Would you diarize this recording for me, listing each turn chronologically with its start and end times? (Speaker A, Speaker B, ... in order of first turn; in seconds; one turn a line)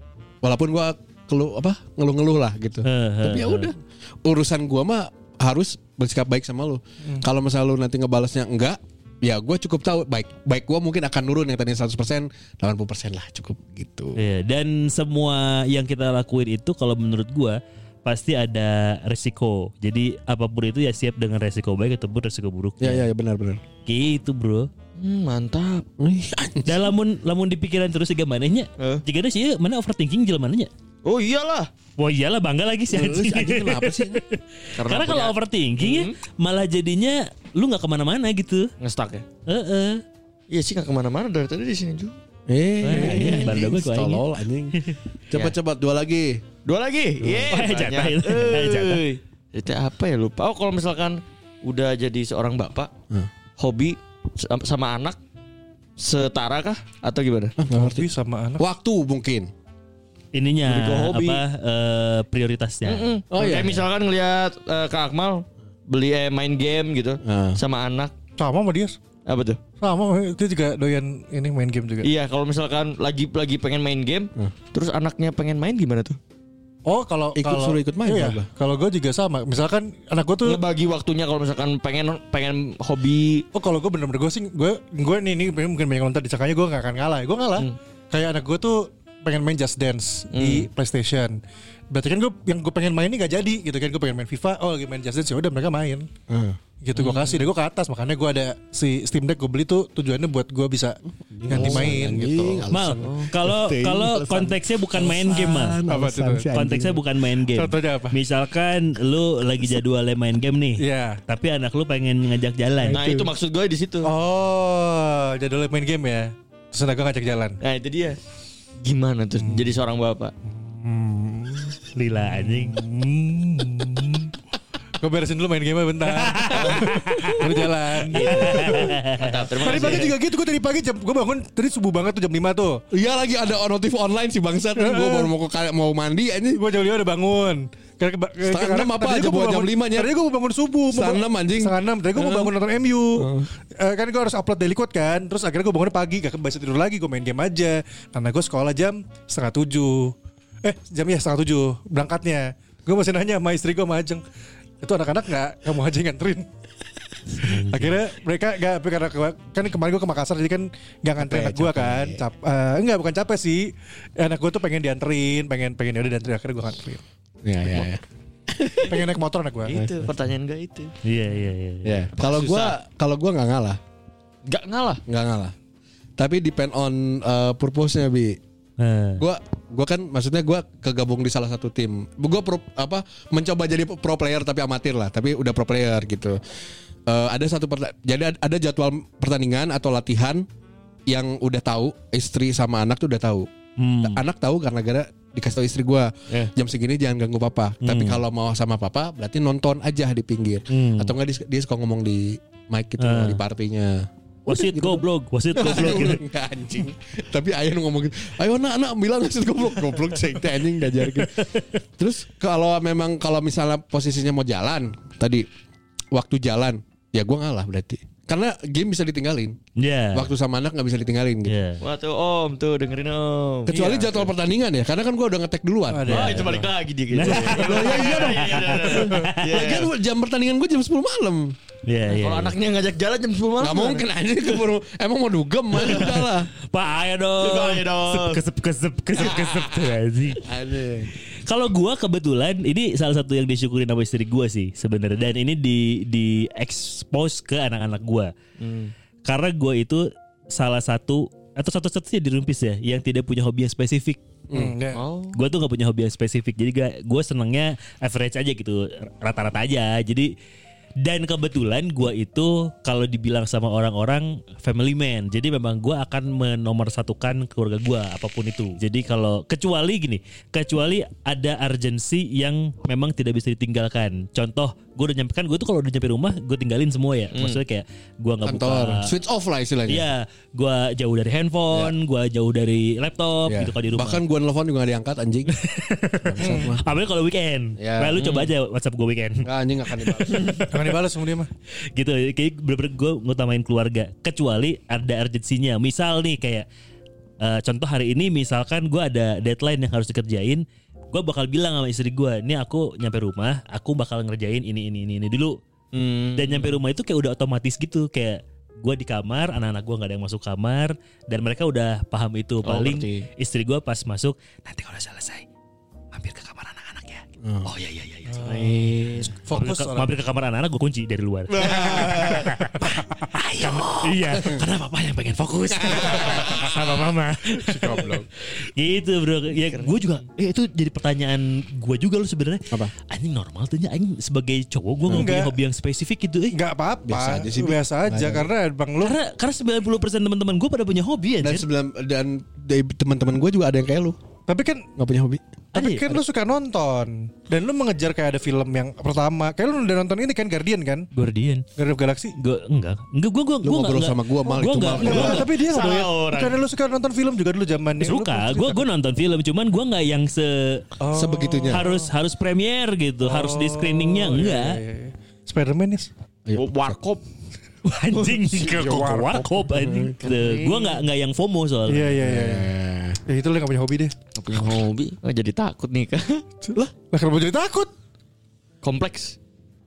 Speaker A: 0.4-14.2
Speaker B: 2.8-3.7
Speaker B: 14.2-23.1
Speaker A: 22.8-23.6
Speaker B: 23.9-24.7
Speaker C: 25.0-25.8
Speaker A: 26.0-26.9
Speaker B: 26.6-30.7
Speaker C: 31.0-31.7
Speaker B: 32.0-38.7
Speaker A: 32.9-34.2
Speaker C: 34.8-36.1
Speaker C: 38.8-39.2
Speaker B: 39.5-40.0
Speaker C: 40.5-42.1
Speaker A: 42.5-44.8
Speaker B: 42.8-44.2
Speaker C: 42.9-43.8
Speaker A: 45.3-46.4
Speaker C: 46.6-52.9
Speaker A: 47.2-47.5
Speaker B: 47.5-49.0
Speaker C: 53.6-55.2
Speaker C: 56.0-57.5
Speaker A: 57.6-59.5
Speaker D: 57.7-58.6
Speaker B: 60.3-63.1
Speaker C: 60.6-61.4
Speaker C: 62.8-68.1
Speaker A: 63.3-63.9
Speaker A: 67.2-67.6
Speaker D: 68.4-69.0
Speaker C: 69.2-69.6
Speaker D: 69.8-72.1
Speaker C: 72.0-76.2
Speaker D: 76.8-80.6
Speaker A: 77.3-78.5
Speaker C: 80.4-83.5
Speaker D: 83.5-91.4
Speaker C: 90.3-90.7
Speaker D: 91.9-96.1
Speaker A: 96.3-96.6
Speaker D: 96.8-102.6
Speaker C: 96.9-97.5
Speaker A: 101.3-107.0
Speaker C: 101.5-102.0
Speaker B: 102.7-105.8
Speaker C: 103.0-103.3
Speaker D: 105.8-106.5
Speaker B: 106.5-113.0
Speaker D: 107.5-108.2
Speaker D: 110.8-111.2
Speaker C: 112.9-114.1
Speaker A: 112.9-113.3
Speaker D: 114.0-117.6
Speaker C: 117.6-118.2
Speaker C: 118.8-120.3
Speaker D: 119.4-119.7
Speaker D: 120.5-124.3
Speaker B: 121.9-122.8
Speaker D: 125.0-128.9
Speaker B: 126.1-127.4
Speaker C: 126.5-130.2
Speaker B: 128.1-130.0
Speaker D: 129.6-132.8
Speaker A: 132.9-136.6
Speaker D: 134.8-135.3
Speaker D: 136.5-154.2
Speaker A: 138.4-140.1
Speaker A: 140.9-142.5
Speaker A: 143.1-143.5
Speaker D: 154.8-156.5
Speaker D: 157.3-167.0
Speaker A: 161.2-162.2
Speaker A: 167.4-168.9
Speaker D: 168.9-169.8
Speaker C: 169.6-170.9
Speaker A: 169.7-170.1
Speaker B: 171.0-172.1
Speaker A: 171.8-173.8
Speaker C: 172.2-172.8
Speaker C: 174.4-175.0
Speaker A: 175.1-175.5
Speaker A: 176.2-178.4
Speaker B: 178.8-179.2
Speaker A: 179.2-186.4
Speaker A: 187.1-190.4
Speaker A: 191.1-193.5
Speaker B: 193.8-194.2
Speaker A: 194.0-211.3
Speaker B: 197.8-198.2
Speaker B: 200.7-201.1
Speaker B: 203.0-203.4
Speaker B: 204.5-206.2
Speaker B: 211.0-211.8
Speaker A: 212.0-215.4
Speaker A: 216.1-219.6
Speaker B: 219.8-220.3
Speaker A: 220.1-221.6
Speaker B: 221.5-221.8
Speaker C: 221.8-224.3
Speaker A: 223.7-226.6
Speaker D: 223.7-224.1
Speaker D: 225.9-226.7
Speaker C: 226.1-229.9
Speaker B: 227.1-229.6
Speaker D: 227.2-228.0
Speaker A: 227.2-231.5
Speaker B: 231.9-232.5
Speaker C: 232.1-234.1
Speaker A: 233.6-236.5
Speaker B: 236.7-240.5
Speaker C: 237.4-238.4
Speaker A: 239.4-239.9
Speaker A: 240.4-241.1
Speaker B: 241.4-248.3
Speaker C: 248.6-248.9
Speaker B: 249.2-254.2
Speaker A: 254.5-254.8
Speaker D: 254.5-255.0
Speaker C: 254.9-255.4
Speaker B: 255.3-260.3
Speaker B: 261.0-279.1
Speaker C: 277.3-277.6
Speaker A: 278.4-280.1
Speaker B: 279.9-284.2
Speaker A: 283.5-285.5
Speaker B: 285.5-290.8
Speaker A: 286.2-286.8
Speaker D: 286.4-286.7
Speaker A: 287.8-288.2
Speaker C: 288.2-288.5
Speaker A: 289.4-290.4
Speaker C: 290.3-290.6
Speaker D: 290.7-291.5
Speaker B: 291.9-296.6
Speaker B: 297.4-305.6
Speaker C: 305.9-306.8
Speaker B: 306.4-315.4
Speaker C: 312.6-313.2
Speaker B: 316.1-318.5
Speaker A: 317.4-317.7
Speaker D: 318.3-318.8
Speaker C: 318.4-319.3
Speaker D: 319.4-320.1
Speaker B: 319.5-336.6
Speaker A: 321.5-322.5
Speaker D: 321.6-323.2
Speaker A: 323.6-324.6
Speaker A: 325.7-326.8
Speaker D: 327.6-328.3
Speaker C: 329.6-330.1
Speaker A: 335.1-335.3
Speaker D: 335.1-335.6
Speaker D: 336.5-339.1
Speaker A: 337.1-338.5
Speaker B: 339.0-341.6
Speaker A: 341.4-344.2
Speaker D: 344.5-344.9
Speaker A: 345.0-345.4
Speaker B: 345.7-346.2
Speaker D: 345.7-351.1
Speaker B: 351.1-351.6
Speaker D: 351.8-352.4
Speaker B: 352.4-355.5
Speaker A: 353.6-355.5
Speaker D: 354.9-358.8
Speaker C: 355.0-356.6
Speaker B: 358.0-360.9
Speaker D: 361.0-362.1
Speaker A: 361.1-361.8
Speaker B: 361.7-364.8
Speaker D: 363.2-366.1
Speaker C: 366.5-367.2
Speaker B: 367.8-372.2
Speaker D: 368.2-369.6
Speaker A: 369.7-370.1
Speaker C: 370.2-371.0
Speaker D: 371.9-372.7
Speaker A: 372.2-373.2
Speaker D: 373.2-374.1
Speaker C: 374.4-376.4
Speaker D: 377.1-377.9
Speaker C: 378.8-379.4